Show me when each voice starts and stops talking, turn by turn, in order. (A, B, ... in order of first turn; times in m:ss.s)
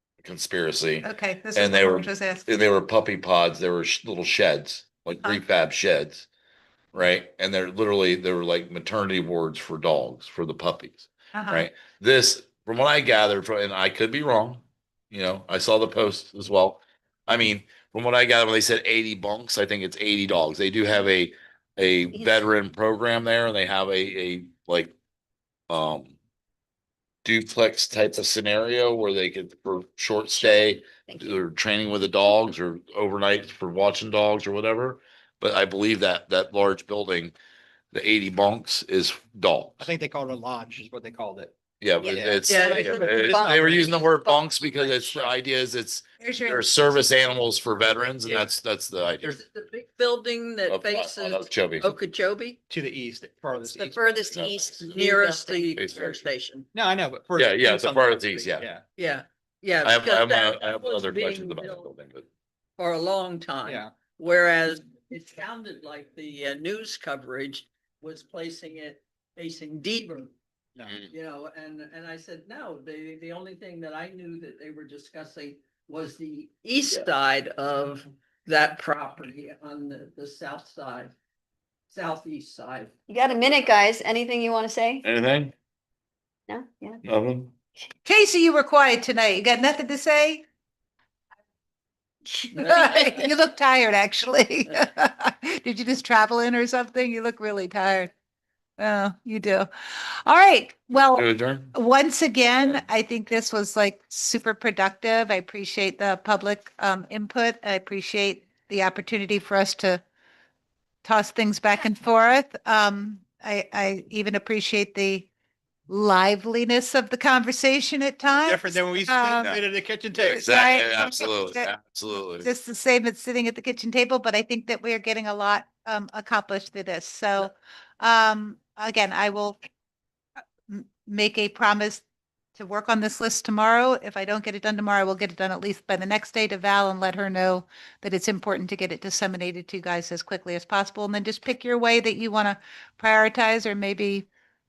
0:00.2-0:06.3 A
0:01.0-0:02.4 B
0:06.9-0:24.9 A
0:11.3-0:11.7 B
0:25.7-0:26.1 A
0:27.2-0:37.3 A
0:30.4-0:31.4 C
0:37.9-0:39.9 A
0:39.8-0:41.5 D
0:41.8-0:49.3 A
0:42.0-0:45.1 C
0:42.1-0:44.0 D
0:42.5-0:43.4 E
0:46.2-0:46.7 B
0:49.2-0:52.6 E
0:50.7-0:51.9 A
0:52.7-0:54.2 D
0:53.6-0:55.8 C
0:54.3-0:54.6 A
0:54.8-0:56.7 E
0:55.8-0:56.2 A
0:56.7-0:58.8 D
0:57.4-0:58.7 A
0:59.0-1:01.9 E
0:59.8-1:02.3 A
1:02.8-1:10.3 E
1:03.6-1:03.9 D
1:11.1-1:21.1 E
1:21.9-1:22.9 E
1:23.1-1:25.0 C
1:25.0-1:25.5 A
1:26.5-1:27.0 C
1:27.0-1:27.5 A
1:28.0-1:30.4 B
1:32.3-1:38.1 B
1:32.5-1:33.3 E
1:38.8-1:50.0 B
1:41.1-1:41.7 A
1:51.0-1:55.3 B
1:55.9-1:59.5 B
1:58.4-2:00.4 D
2:00.2-2:01.7 B
2:00.3-2:02.5 A
2:02.4-2:09.6 B
2:10.7-2:12.0 B
2:12.6-2:24.2 B